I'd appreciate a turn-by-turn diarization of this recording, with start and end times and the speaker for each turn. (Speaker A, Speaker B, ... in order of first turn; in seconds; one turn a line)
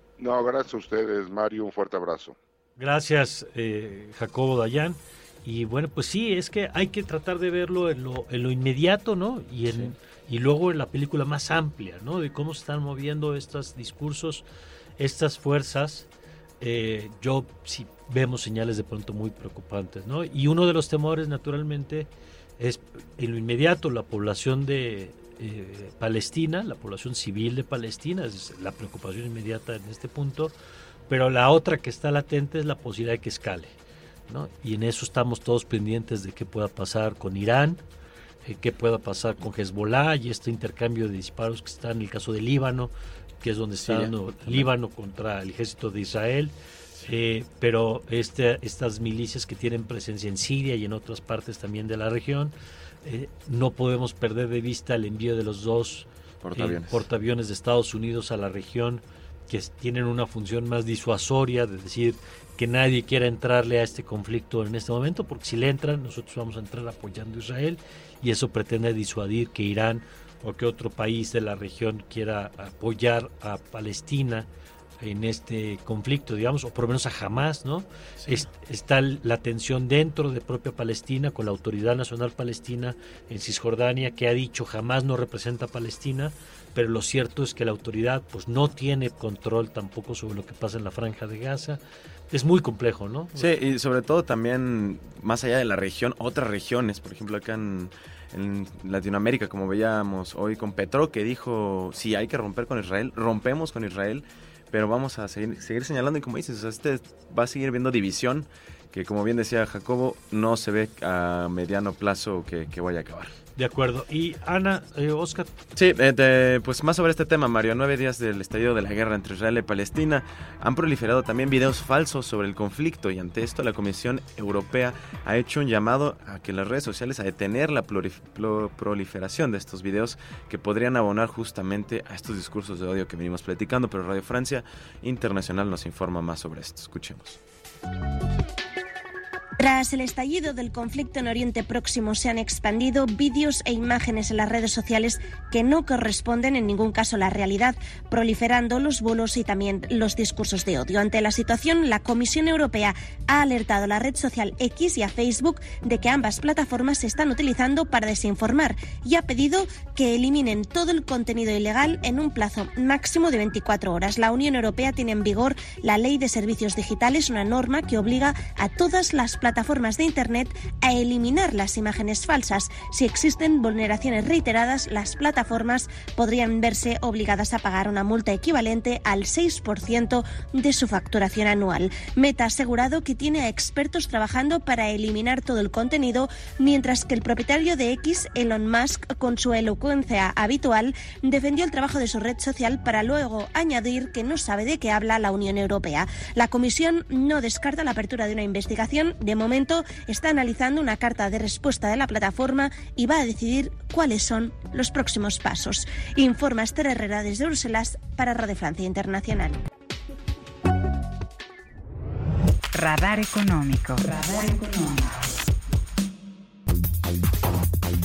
Speaker A: 0.2-2.4
Speaker B: 2.8-14.4
Speaker B: 15.0-16.1
Speaker B: 16.6-30.5
Speaker B: 31.1-33.7
Speaker B: 34.3-37.8
Speaker B: 38.4-46.5
Speaker C: 43.8-44.7
Speaker B: 47.0-74.5
Speaker C: 56.4-57.0
Speaker B: 75.0-93.5
Speaker C: 93.3-113.3
Speaker B: 113.6-115.5
Speaker C: 115.7-137.4
Speaker D: 139.6-209.6
Speaker E: 212.7-215.2